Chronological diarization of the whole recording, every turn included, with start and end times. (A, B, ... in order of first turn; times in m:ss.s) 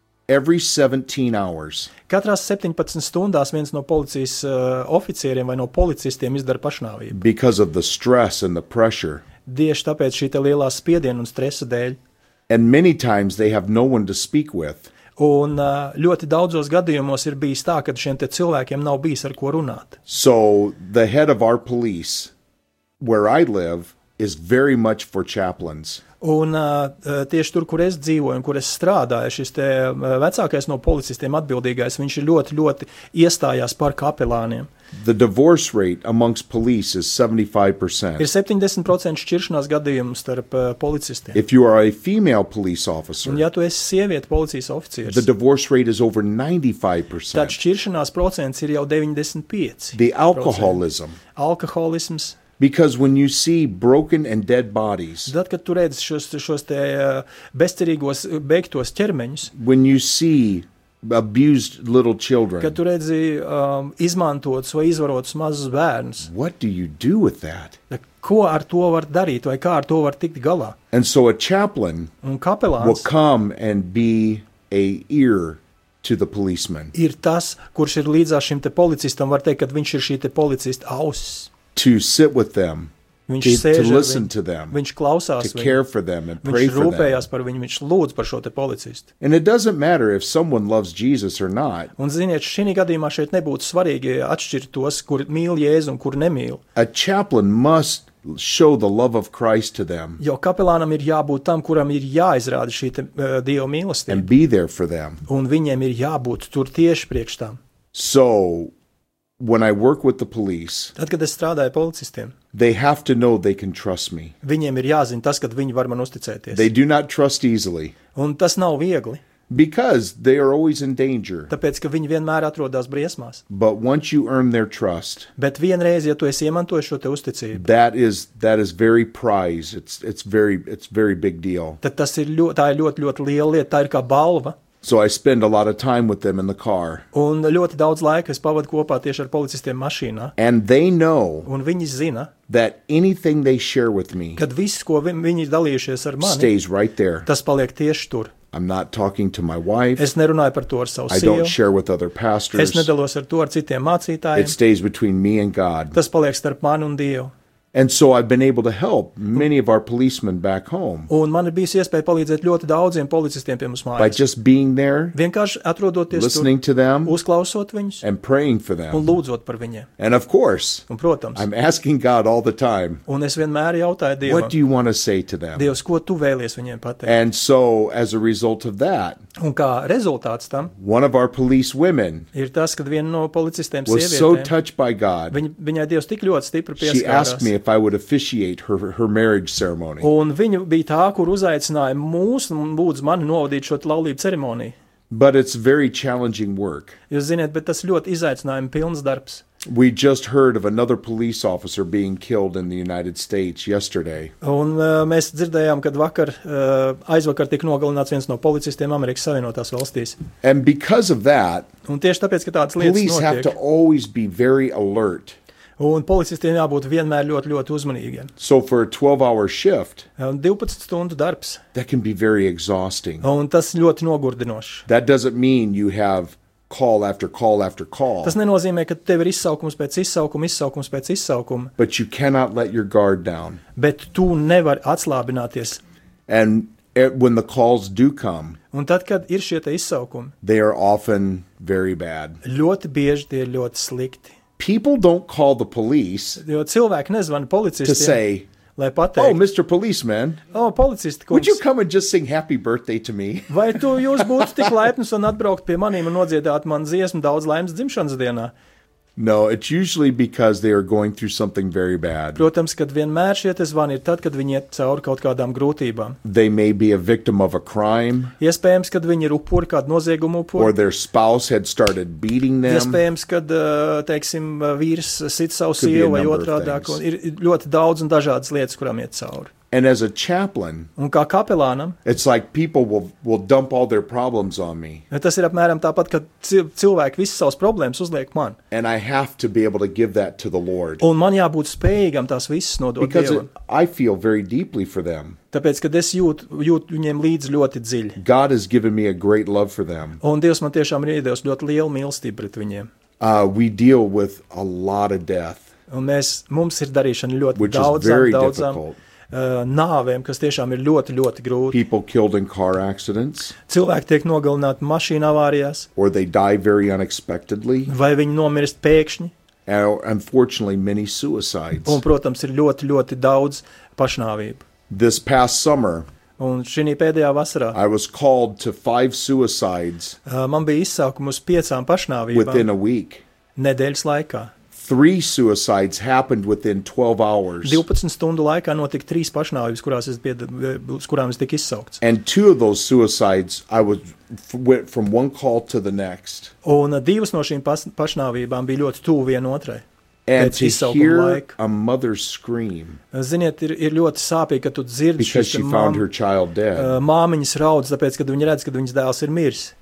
0:00.3-0:01.9 A
0:02.1-0:07.2 B
0:07.1-0:09.2 A
0:09.4-0:12.0 B
0:12.5-0:14.9 A
0:15.2-0:20.0 B
0:20.1-0:22.3 A
0:23.0-0:26.0 A
0:26.2-0:34.7 B
0:34.9-0:38.3 A
0:38.2-0:41.4 B
0:41.3-0:43.4 A
0:43.2-0:45.2 B
0:45.1-0:47.6 A
0:47.3-0:50.8 B
0:49.9-0:51.2 A
0:51.3-0:52.4 B
0:52.6-0:55.3 A
0:55.3-0:59.5 B
0:59.5-1:02.8 A
1:02.6-1:06.3 B
1:06.2-1:07.8 A
1:07.9-1:10.8 B
1:10.9-1:12.1 A
1:12.2-1:13.1 B
1:12.8-1:16.9 A
1:16.9-1:21.5 B
1:21.7-1:24.8 A
1:23.3-1:25.8 B
1:25.4-1:27.2 A
1:26.4-1:29.1 B
1:29.2-1:31.9 A
1:32.0-1:36.6 B
1:36.7-1:40.2 A
1:40.2-1:44.3 B
1:44.1-1:45.2 A
1:45.3-1:47.6 B
1:47.9-1:48.7 A
1:49.4-1:50.9 A
1:51.0-1:52.3 B
1:52.5-1:54.3 A
1:54.4-1:56.7 B
1:56.5-1:57.9 A
1:58.1-1:59.2 B
1:59.5-2:01.5 A
2:01.5-2:03.4 B
2:03.5-2:05.3 A
2:05.4-2:07.6 B
2:07.5-2:11.8 A
2:11.8-2:14.6 B
2:14.8-2:17.0 A
2:17.1-2:20.3 B
2:20.4-2:21.5 A
2:21.4-2:22.3 B
2:22.5-2:24.4 A
2:24.4-2:26.5 B
2:26.2-2:27.3 A
2:27.2-2:28.3 B
2:28.5-2:30.1 A
2:30.0-2:31.6 B
2:31.1-2:32.9 A
2:32.5-2:34.6 B
2:34.4-2:36.0 A
2:35.9-2:37.3 B
2:37.7-2:41.1 A
2:41.1-2:44.2 B
2:44.0-2:45.2 A
2:45.1-2:46.5 B
2:46.1-2:47.2 A
2:47.0-2:48.0 B
2:48.0-2:49.0 A
2:48.9-2:49.9 B
2:50.0-2:53.0 A
2:50.9-2:51.4 B
2:53.1-2:54.5 B
2:54.2-2:55.7 A
2:55.6-2:57.2 B
2:57.0-2:59.2 A
2:59.4-3:00.7 B
3:00.8-3:02.3 A
3:02.3-3:04.5 B
3:03.8-3:05.4 A
3:05.3-3:07.5 B
3:06.8-3:10.1 A
3:10.0-3:14.7 B
3:15.1-3:17.0 A
3:17.1-3:19.4 B
3:19.6-3:24.3 A
3:24.4-3:30.2 B
3:30.4-3:31.7 A
3:31.8-3:33.5 B
3:32.8-3:35.4 A
3:35.8-3:38.3 B
3:38.4-3:40.1 A
3:40.2-3:41.6 B
3:41.7-3:43.3 A
3:43.2-3:44.8 B
3:44.9-3:48.4 A
3:48.2-3:51.7 B
3:51.8-3:53.6 A
3:53.8-3:55.8 B
3:56.3-3:58.6 A
3:58.7-4:00.3 B
4:00.4-4:02.4 A
4:02.4-4:04.3 B
4:04.6-4:06.4 A
4:06.4-4:08.2 B
4:07.8-4:08.5 A
4:08.8-4:09.4 B
4:09.2-4:10.4 A
4:10.5-4:11.6 B
4:11.3-4:14.7 A
4:13.5-4:18.5 B
4:19.2-4:22.4 A
4:22.4-4:26.2 B
4:26.2-4:28.3 A
4:28.4-4:30.7 B
4:30.6-4:33.0 A
4:32.6-4:39.5 B
4:35.8-4:37.0 A
4:39.7-4:40.9 A
4:41.0-4:42.0 B
4:42.0-4:45.0 A
4:45.1-4:48.6 B
4:48.7-4:51.0 A
4:51.0-4:53.5 B
4:53.0-4:55.4 A
4:55.5-4:58.2 B
4:58.2-5:00.2 A
5:00.2-5:02.9 B
5:03.2-5:05.7 A
5:05.9-5:11.8 B
5:07.6-5:09.0 A
5:11.7-5:13.5 A
5:13.7-5:15.9 B
5:16.0-5:17.9 A
5:17.8-5:19.3 B
5:19.6-5:22.0 A
5:21.8-5:24.6 B
5:24.9-5:26.1 A
5:26.4-5:27.8 B
5:27.7-5:30.2 A
5:30.2-5:32.7 B
5:32.3-5:33.2 A
5:33.6-5:34.5 B
5:34.7-5:37.8 A
5:37.6-5:42.0 B
5:42.0-5:46.5 A
5:46.6-5:49.8 B
5:50.3-5:53.0 A
5:50.4-5:51.5 B
5:53.1-5:56.0 B
5:55.2-5:57.0 A
5:56.8-5:59.7 B